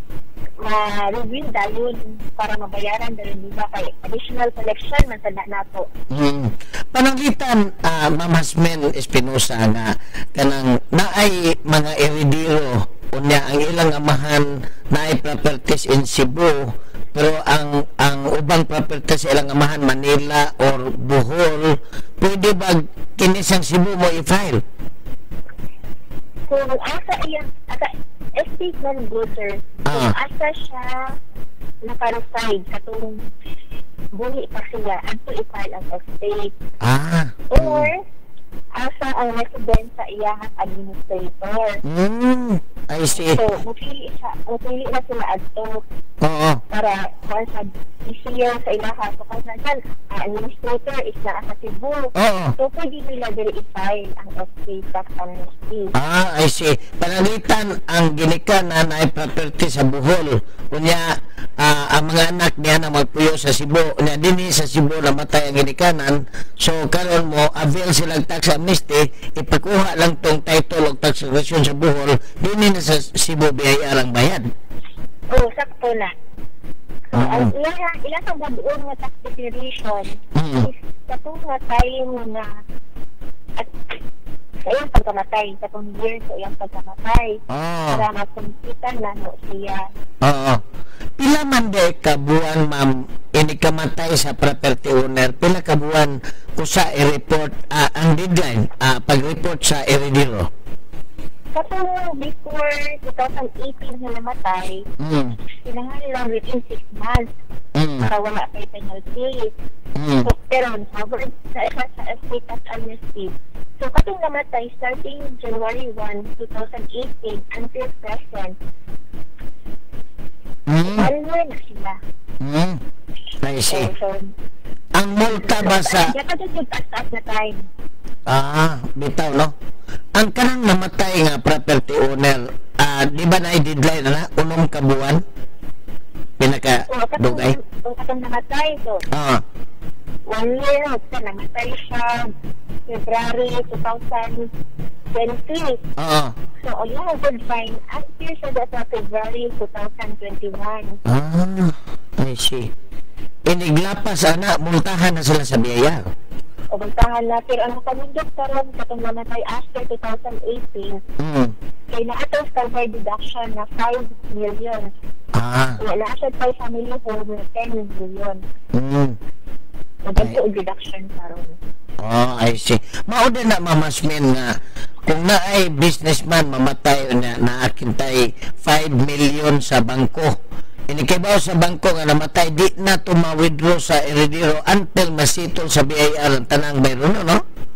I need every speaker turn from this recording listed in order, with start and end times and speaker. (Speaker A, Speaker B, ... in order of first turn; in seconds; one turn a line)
Speaker A: 0.6-5.9
Speaker B: 6.1-21.7
Speaker B: 22.2-24.6
Speaker A: 26.5-31.1
Speaker B: 29.9-30.1
Speaker A: 31.8-33.2
Speaker A: 34.2-36.5
Speaker B: 36.8-37.9
Speaker A: 37.5-38.0
Speaker A: 38.8-41.8
Speaker B: 41.9-43.4
Speaker A: 43.1-45.8
Speaker B: 46.2-46.6
Speaker A: 46.7-55.9
Speaker B: 52.2-52.5
Speaker B: 56.0-61.1
Speaker B: 61.6-74.5
Speaker A: 75.3-76.1
Speaker A: 77.1-82.5
Speaker B: 77.1-77.5
Speaker B: 80.3-80.7
Speaker A: 84.7-89.8
Speaker B: 87.5-88.0
Speaker B: 90.2-90.6
Speaker B: 91.2-100.5
Speaker A: 101.5-104.9
Speaker B: 105.0-105.4
Speaker A: 105.6-107.3
Speaker B: 107.8-108.1
Speaker A: 108.0-109.5
Speaker B: 110.0-110.3
Speaker A: 110.2-118.6
Speaker B: 120.7-121.1
Speaker A: 120.8-122.0
Speaker B: 122.4-122.8
Speaker B: 123.4-123.9
Speaker A: 123.7-124.3
Speaker B: 125.0-126.1
Speaker A: 125.2-127.7
Speaker B: 128.3-129.5
Speaker B: 130.2-135.2
Speaker B: 136.4-137.6
Speaker A: 136.9-139.0
Speaker B: 139.1-139.4
Speaker A: 140.3-142.3
Speaker A: 142.9-144.5
Speaker A: 145.1-145.8
Speaker B: 146.0-146.3
Speaker A: 146.6-151.0
Speaker B: 151.1-152.7
Speaker B: 153.5-156.0
Speaker A: 156.7-161.0
Speaker B: 161.2-161.5
Speaker A: 161.9-164.9
Speaker B: 165.4-165.8
Speaker A: 165.8-168.4
Speaker B: 168.8-169.2
Speaker A: 170.1-171.6
Speaker B: 172.0-174.5
Speaker B: 175.1-180.3
Speaker B: 180.9-187.4